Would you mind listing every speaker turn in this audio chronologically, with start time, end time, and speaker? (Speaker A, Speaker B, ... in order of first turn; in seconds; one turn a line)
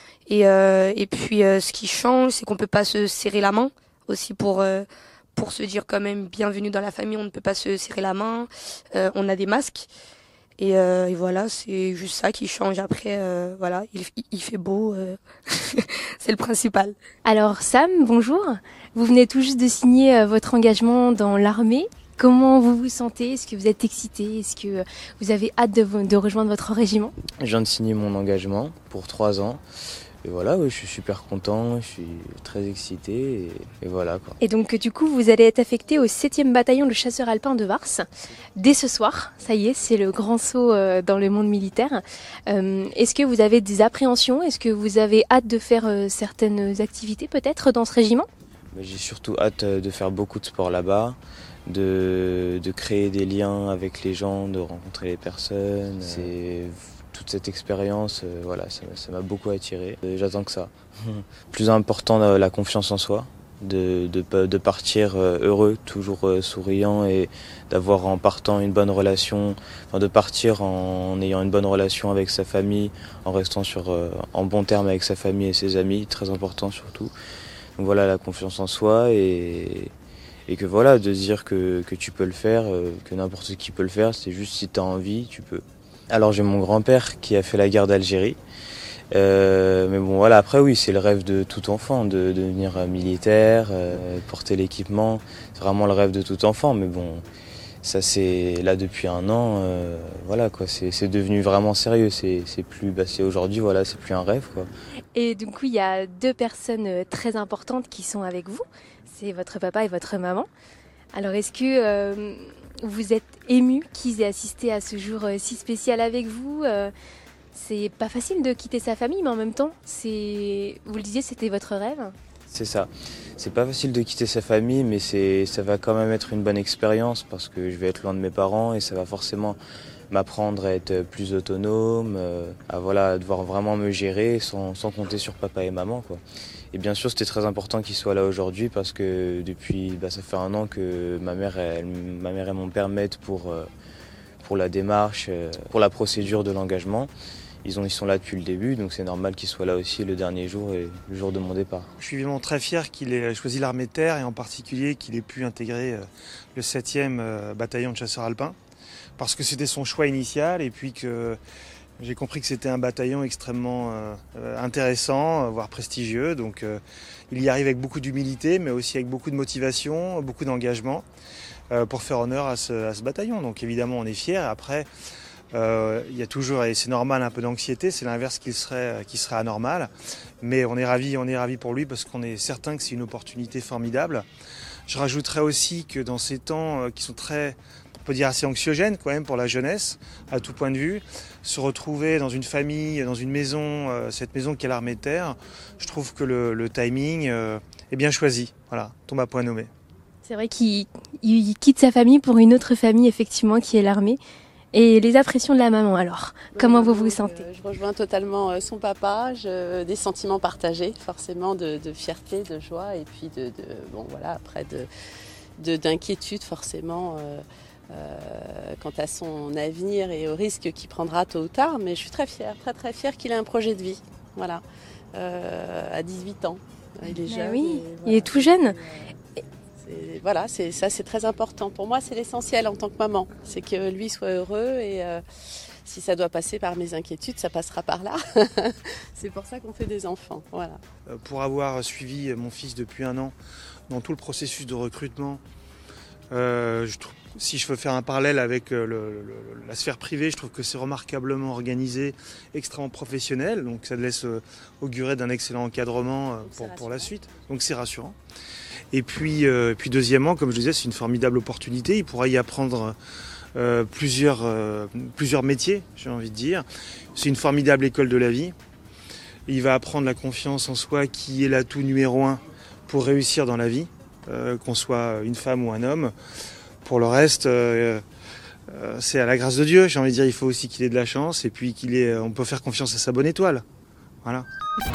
Speaker A: 0.3-9.9
Speaker A: 10.6-17.0
Speaker B: 17.2-27.1
Speaker C: 27.4-29.6
Speaker C: 30.2-34.3
Speaker B: 34.4-38.1
Speaker B: 38.6-48.3
Speaker C: 48.7-51.2
Speaker C: 51.7-77.1
Speaker C: 77.8-79.9
Speaker C: 80.5-88.4
Speaker C: 89.1-97.2
Speaker C: 97.8-104.7
Speaker B: 105.2-110.5
Speaker B: 111.1-116.9
Speaker B: 117.5-122.2
Speaker C: 122.5-129.6
Speaker C: 130.1-136.2
Speaker C: 136.7-143.7
Speaker C: 144.4-147.1
Speaker C: 147.7-151.9
Speaker D: 152.0-158.6
Speaker D: 159.2-161.4
Speaker D: 162.0-171.1
Speaker D: 171.7-174.9
Speaker D: 175.5-179.9
Speaker D: 180.4-184.3
Speaker D: 184.9-199.7
Speaker B: 200.2-204.2
Speaker B: 204.7-207.4
Speaker E: 206.5-214.9
Speaker E: 215.6-224.6
Speaker E: 225.1-229.1
Speaker B: 227.3-228.8
Speaker E: 229.8-235.2
Speaker E: 235.9-240.8
Speaker D: 241.1-243.3
Speaker D: 243.9-245.4
Speaker D: 246.3-258.2
Speaker E: 256.4-257.2
Speaker D: 258.9-263.0
Speaker D: 263.6-268.6
Speaker D: 269.5-276.1
Speaker D: 276.8-278.0
Speaker D: 278.7-283.6